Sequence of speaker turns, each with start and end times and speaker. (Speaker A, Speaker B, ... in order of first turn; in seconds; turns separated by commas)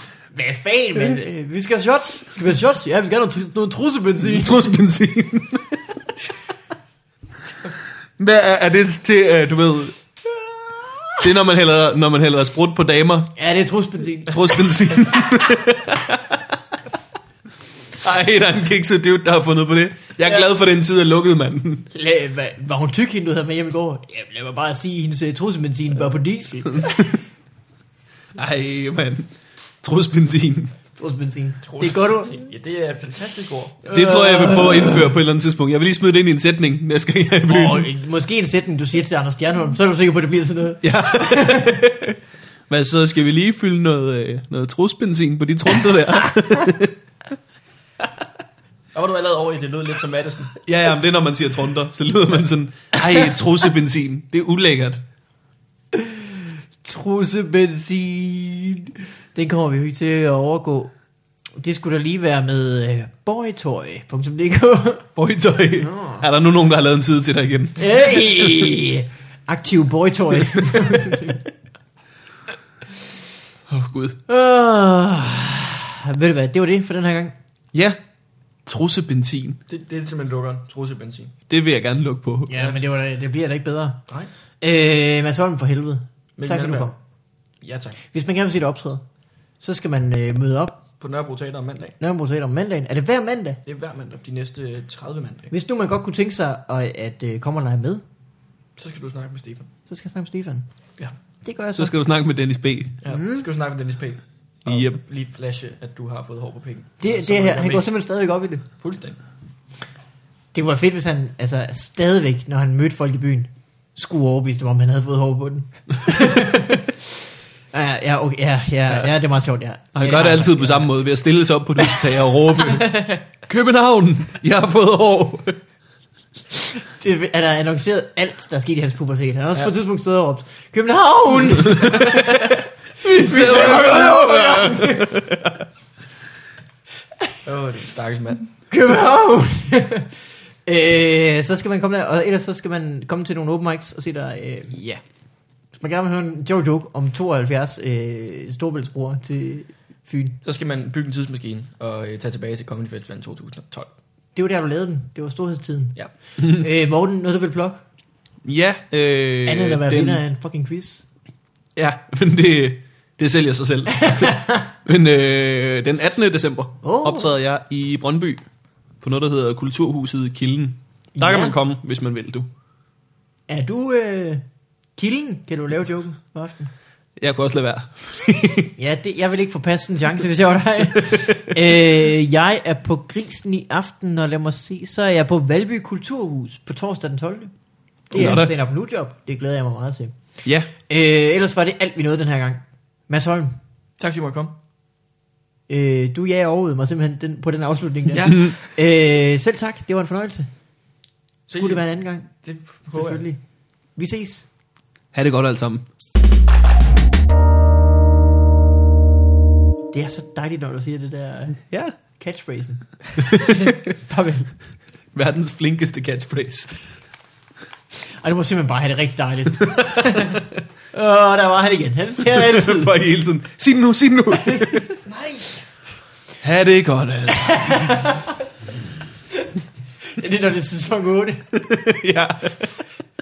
Speaker A: 0.3-4.7, Speaker B: 4.2-5.8, Speaker B: 8.2-10.0, Speaker A: 10.6-11.2, Speaker B: 11.2-13.3, Speaker A: 13.4-15.5, Speaker B: 14.3-16.4, Speaker B: 18.0-21.9, Speaker A: 21.9-27.1, Speaker B: 26.8-27.1, Speaker B: 28.4-29.3, Speaker B: 29.8-30.7, Speaker A: 30.9-32.4, Speaker C: 31.7-33.9, Speaker B: 33.9-37.9, Speaker A: 33.9-35.1, Speaker A: 37.5-41.8, Speaker B: 40.8-42.2, Speaker B: 42.7-47.0, Speaker C: 48.9-50.5, Speaker B: 50.6-55.0, Speaker A: 55.9-60.9, Speaker A: 61.6-65.1, Speaker B: 65.2-67.8, Speaker A: 65.8-66.3, Speaker A: 67.8-71.4, Speaker B: 70.6-71.2, Speaker B: 73.7-74.2, Speaker A: 74.3-77.3, Speaker B: 77.7-78.0, Speaker B: 78.7-79.6, Speaker C: 79.7-81.3, Speaker B: 81.5-82.5, Speaker A: 82.5-84.0, Speaker A: 84.6-87.0, Speaker C: 86.4-86.9, Speaker C: 87.6-88.0, Speaker A: 88.0-89.0, Speaker A: 89.6-90.8, Speaker C: 91.0-92.0, Speaker A: 92.0-93.6, Speaker C: 93.7-95.5, Speaker A: 95.5-98.0, Speaker C: 98.8-99.7, Speaker A: 99.9-100.7, Speaker A: 101.4-101.9, Speaker B: 101.8-103.0, Speaker C: 103.0-107.8, Speaker A: 103.1-103.5, Speaker B: 104.7-105.0, Speaker A: 107.0-108.7, Speaker C: 108.8-109.2, Speaker A: 110.5-117.0, Speaker A: 117.7-120.9, Speaker B: 119.9-125.6, Speaker A: 121.8-123.1, Speaker A: 126.8-135.2, Speaker B: 131.7-132.1, Speaker C: 132.0-132.5, Speaker B: 133.0-135.5, Speaker C: 137.4-138.5, Speaker A: 138.7-140.1, Speaker A: 140.7-144.8, Speaker B: 144.7-145.0, Speaker A: 145.8-150.4, Speaker C: 150.4-153.9, Speaker A: 154.4-157.8, Speaker B: 158.4-160.2, Speaker A: 159.5-161.1, Speaker B: 161.8-168.4, Speaker A: 164.0-164.7, Speaker A: 166.8-167.3, Speaker B: 169.0-172.5, Speaker A: 171.2-171.6, Speaker A: 173.5-174.4, Speaker A: 175.0-176.7, Speaker B: 177.2-178.7, Speaker A: 178.8-187.5, Speaker A: 188.1-190.1, Speaker B: 188.1-188.5, Speaker B: 190.4-190.7, Speaker A: 190.9-193.6, Speaker C: 194.0-194.6, Speaker A: 195.7-200.5, Speaker C: 198.2-198.6, Speaker B: 198.3-198.5, Speaker A: 201.5-202.3, Speaker C: 201.5-203.2, Speaker A: 202.9-203.4, Speaker A: 204.0-204.5, Speaker B: 205.1-205.8, Speaker A: 209.9-214.5, Speaker B: 211.7-211.9, Speaker B: 213.3-213.7, Speaker B: 215.1-216.8, Speaker A: 218.2-220.4, Speaker B: 219.9-220.2, Speaker A: 220.9-222.9, Speaker B: 222.2-224.9, Speaker A: 224.4-225.0, Speaker C: 225.1-225.6, Speaker B: 226.4-228.1, Speaker A: 227.4-228.3, Speaker A: 230.2-231.4, Speaker B: 231.5-232.7